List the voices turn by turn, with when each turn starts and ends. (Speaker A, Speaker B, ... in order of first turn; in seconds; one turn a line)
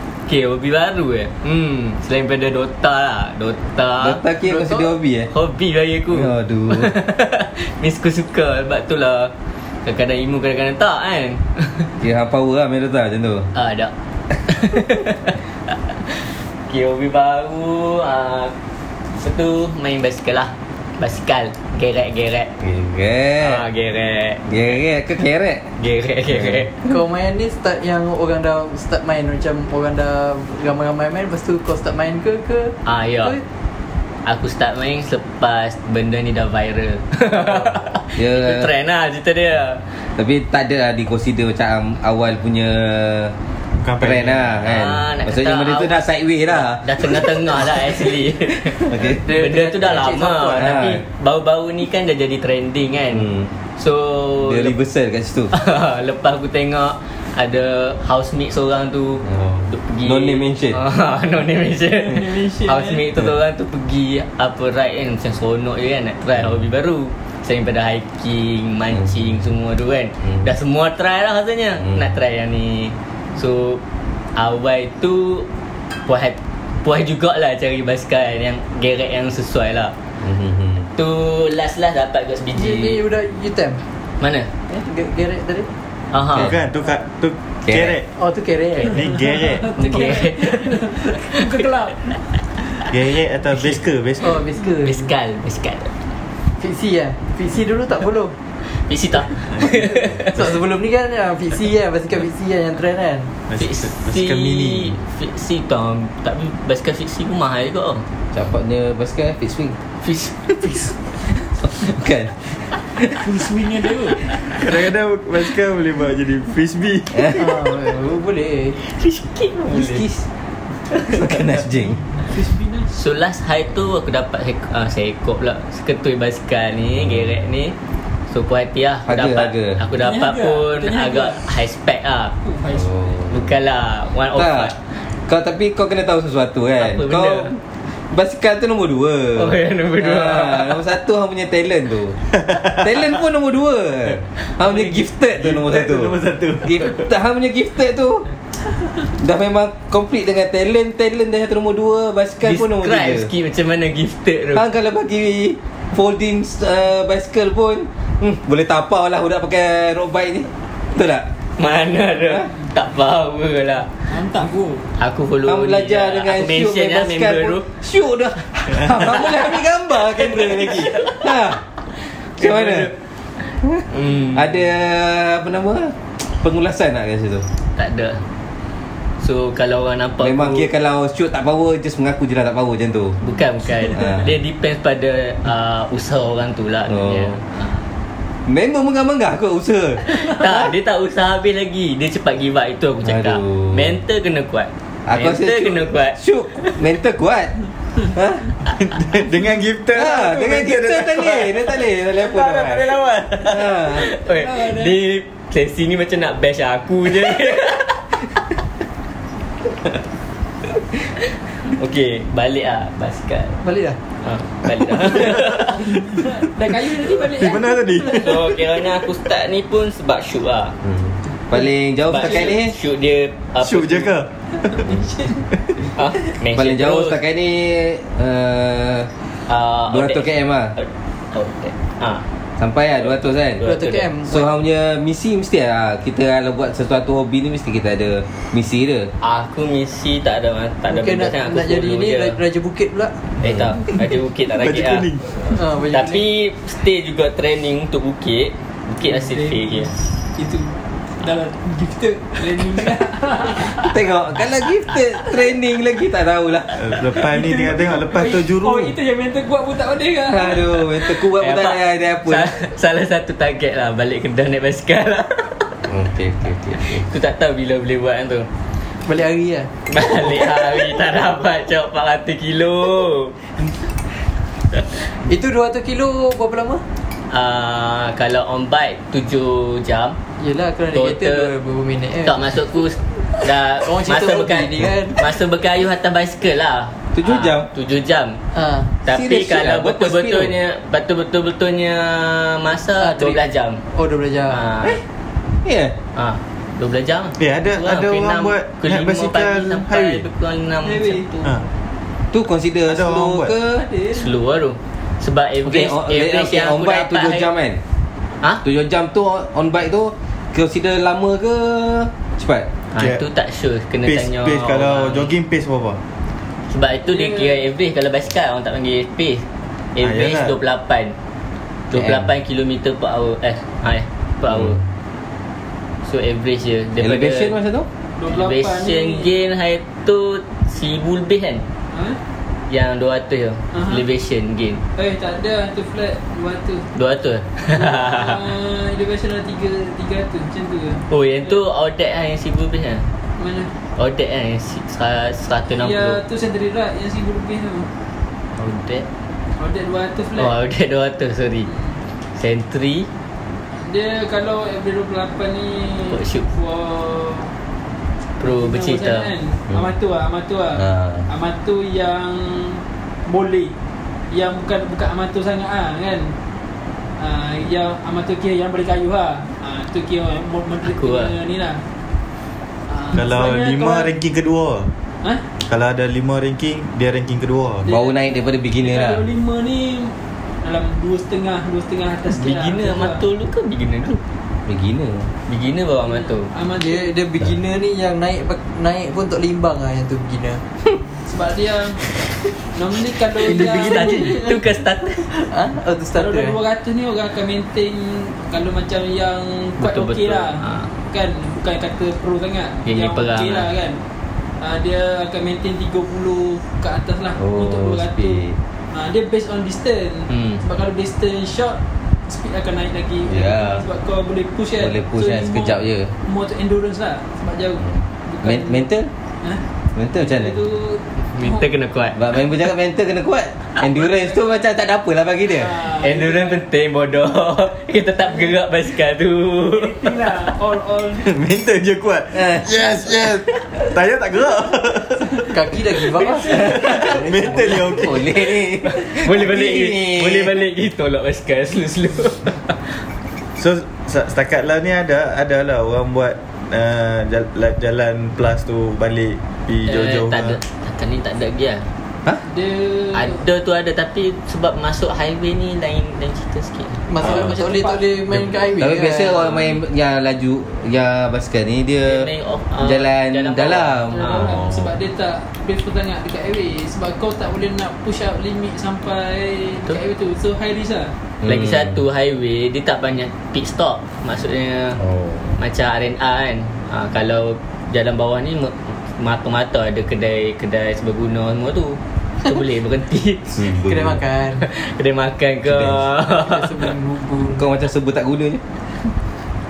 Speaker A: 0.3-4.2
Speaker B: 4.0-5.3
Speaker C: 4.4-4.9
Speaker A: 5.3-9.3
Speaker B: 6.1-6.9
Speaker A: 9.8-11.9
Speaker B: 12.0-13.5
Speaker A: 13.5-13.9
Speaker A: 14.4-15.3
Speaker A: 16.7-18.5
Speaker A: 19.1-22.5
Speaker B: 22.6-23.6
Speaker A: 23.4-24.5
Speaker B: 24.4-25.7
Speaker A: 25.8-26.7
Speaker B: 26.3-26.6
Speaker C: 26.8-33.4
Speaker A: 32.8-33.4
Speaker A: 34.2-39.8
Speaker B: 38.1-38.7
Speaker B: 40.2-43.3
Speaker D: 43.8-44.4
Speaker B: 44.0-47.6
Speaker A: 44.6-46.0
Speaker A: 46.5-54.7
Speaker B: 48.7-49.2
Speaker C: 49.0-50.8
Speaker B: 50.6-51.0
Speaker B: 53.1-53.5
Speaker B: 54.4-55.5
Speaker A: 55.5-73.8
Speaker B: 59.2-60.8
Speaker E: 62.0-63.0
Speaker A: 74.3-75.5
Speaker A: 76.0-79.9
Speaker B: 80.2-80.9
Speaker A: 81.0-83.0
Speaker C: 82.5-83.8
Speaker A: 84.2-84.5
Speaker C: 84.7-85.7
Speaker A: 86.1-86.5
Speaker D: 86.4-88.1
Speaker B: 87.7-88.0
Speaker C: 88.2-89.0
Speaker D: 88.8-89.8
Speaker E: 89.0-92.1
Speaker A: 89.8-91.7
Speaker D: 92.9-94.4
Speaker C: 94.2-95.1
Speaker A: 94.8-95.9
Speaker C: 96.6-98.3
Speaker A: 98.6-100.4
Speaker C: 99.6-103.3
Speaker D: 103.5-105.0
Speaker A: 103.6-108.0
Speaker B: 108.3-109.8
Speaker A: 110.0-110.9
Speaker B: 111.7-113.2
Speaker E: 113.2-114.3
Speaker D: 114.5-117.3
Speaker B: 117.1-117.4
Speaker C: 117.3-118.8
Speaker A: 118.8-120.1
Speaker C: 119.7-120.2
Speaker B: 121.0-122.0
Speaker E: 122.2-122.9
Speaker A: 122.9-127.8
Speaker B: 127.0-127.3
Speaker A: 128.3-132.3
Speaker B: 129.1-129.8
Speaker E: 130.0-131.4
Speaker E: 132.4-133.1
Speaker B: 132.7-133.5
Speaker A: 133.3-134.9
Speaker B: 134.3-134.7
Speaker B: 135.3-148.3
Speaker A: 136.8-137.5
Speaker A: 139.3-140.8
Speaker D: 142.5-143.0
Speaker D: 144.7-147.1
Speaker B: 149.2-153.3
Speaker A: 152.4-154.7
Speaker B: 154.5-161.3
Speaker A: 161.6-163.9
Speaker E: 164.1-164.8
Speaker A: 165.0-167.7
Speaker B: 165.4-171.6
Speaker A: 168.9-169.4
Speaker A: 170.2-171.2
Speaker A: 172.4-172.9
Speaker B: 172.4-172.9
Speaker B: 173.6-177.4
Speaker A: 173.9-174.6
Speaker A: 177.8-178.2
Speaker A: 179.2-180.7
Speaker B: 180.2-183.2
Speaker A: 183.2-187.8
Speaker B: 183.9-184.3
Speaker B: 186.9-187.4
Speaker B: 188.5-190.5
Speaker A: 190.0-196.8
Speaker B: 193.0-193.9
Speaker B: 195.1-198.5
Speaker D: 198.8-203.7
Speaker B: 199.9-204.1
Speaker A: 203.9-208.1
Speaker E: 204.3-205.0
Speaker A: 211.6-213.6
Speaker C: 213.6-214.0
Speaker A: 214.2-215.9
Speaker D: 215.1-215.5
Speaker E: 215.7-218.5
Speaker D: 217.1-218.4
Speaker A: 218.1-220.8
Speaker B: 220.8-222.7
Speaker A: 222.1-224.1
Speaker D: 223.6-224.9
Speaker E: 224.7-225.4
Speaker A: 225.9-227.2
Speaker B: 226.5-229.1
Speaker A: 229.5-232.2
Speaker B: 229.9-230.7
Speaker B: 232.6-233.6
Speaker A: 233.6-234.1
Speaker C: 233.6-234.4
Speaker B: 234.2-239.1
Speaker A: 239.2-242.4
Speaker C: 240.9-243.3
Speaker A: 243.4-245.1
Speaker D: 244.6-245.4
Speaker C: 245.4-246.2
Speaker A: 245.9-249.9
Speaker E: 249.1-254.0
Speaker B: 253.7-257.2
Speaker D: 256.8-258.9
Speaker E: 257.2-260.9
Speaker B: 260.2-262.6
Speaker A: 261.4-265.8
Speaker B: 265.9-267.0
Speaker A: 266.7-268.5
Speaker C: 269.1-269.7
Speaker A: 269.9-273.4
Speaker C: 275.2-276.8
Speaker A: 277.3-280.2
Speaker C: 280.4-282.5
Speaker A: 280.9-281.5
Speaker A: 282.2-288.4
Speaker C: 283.7-285.2
Speaker B: 287.1-287.7
Speaker C: 288.5-288.9
Speaker A: 289.0-293.8
Speaker B: 289.1-290.6
Speaker C: 293.0-293.4
Speaker C: 293.9-294.7
Speaker A: 294.5-295.0
Speaker B: 295.6-295.9
Speaker A: 296.1-301.3
Speaker D: 297.4-300.2
Speaker E: 300.8-301.5
Speaker B: 302.3-303.9
Speaker D: 302.9-303.5
Speaker E: 303.7-304.3
Speaker A: 304.1-307.5
Speaker B: 305.6-307.8
Speaker B: 308.6-312.7
Speaker A: 312.9-315.3
Speaker D: 314.0-316.0
Speaker A: 316.7-321.1
Speaker E: 317.1-317.6
Speaker D: 320.0-320.5
Speaker A: 321.9-324.8
Speaker B: 321.9-322.3
Speaker B: 324.5-324.8
Speaker A: 326.0-327.5
Speaker B: 327.0-327.9
Speaker E: 328.2-329.3
Speaker A: 328.3-331.6
Speaker E: 331.9-332.2
Speaker A: 332.7-334.8
Speaker E: 333.7-334.0
Speaker E: 334.9-336.9
Speaker A: 336.9-338.4
Speaker E: 337.8-341.6
Speaker A: 341.1-343.1
Speaker E: 343.4-343.7
Speaker A: 344.0-346.2
Speaker E: 345.8-347.9
Speaker A: 348.5-349.1
Speaker E: 349.6-350.5
Speaker A: 350.4-351.7
Speaker E: 351.7-351.9
Speaker A: 352.4-353.1
Speaker E: 353.8-357.5
Speaker A: 356.1-356.5
Speaker A: 358.4-359.3
Speaker E: 358.6-363.7
Speaker B: 360.8-361.3
Speaker E: 364.3-366.3
Speaker E: 367.2-371.8
Speaker A: 370.8-371.3
Speaker E: 372.9-374.1
Speaker D: 373.1-374.9
Speaker D: 375.6-377.9
Speaker E: 377.8-383.2
Speaker B: 377.8-379.2
Speaker A: 382.3-384.2
Speaker B: 384.7-385.3
Speaker A: 385.5-386.5
Speaker E: 386.1-387.1
Speaker C: 386.8-390.6
Speaker E: 391.1-392.0
Speaker E: 392.7-394.4
Speaker C: 393.4-394.6
Speaker A: 393.5-395.3
Speaker C: 395.3-396.6
Speaker E: 396.1-404.0
Speaker A: 399.8-400.9
Speaker A: 402.8-403.7
Speaker E: 404.6-418.8
Speaker B: 407.4-408.6
Speaker A: 410.3-410.6
Speaker B: 413.2-413.8
Speaker B: 414.8-416.1
Speaker B: 418.4-419.1
Speaker B: 419.9-420.6
Speaker E: 420.2-421.7
Speaker A: 421.2-422.2
Speaker B: 422.1-425.8
Speaker E: 424.0-424.4
Speaker E: 425.5-426.6
Speaker A: 426.0-430.1
Speaker E: 429.7-431.3
Speaker D: 431.2-435.8
Speaker B: 432.3-433.4
Speaker C: 435.5-436.8
Speaker E: 436.1-437.2
Speaker B: 436.4-440.6
Speaker D: 436.5-438.4
Speaker C: 437.5-437.8
Speaker A: 438.9-443.0
Speaker D: 443.6-450.6
Speaker A: 449.9-451.9
Speaker E: 452.4-453.4
Speaker A: 453.1-457.0
Speaker C: 457.1-459.5
Speaker E: 457.2-458.0
Speaker B: 458.8-462.3
Speaker E: 459.4-459.8
Speaker A: 462.0-464.7
Speaker B: 462.8-464.3
Speaker E: 464.1-471.1
Speaker D: 464.3-464.9
Speaker B: 471.4-471.9
Speaker A: 471.4-475.0
Speaker B: 475.0-475.6
Speaker A: 475.6-483.7
Speaker B: 483.6-484.2
Speaker C: 483.7-484.6
Speaker A: 484.6-486.9
Speaker B: 485.6-486.0
Speaker C: 486.3-487.6
Speaker B: 487.5-488.6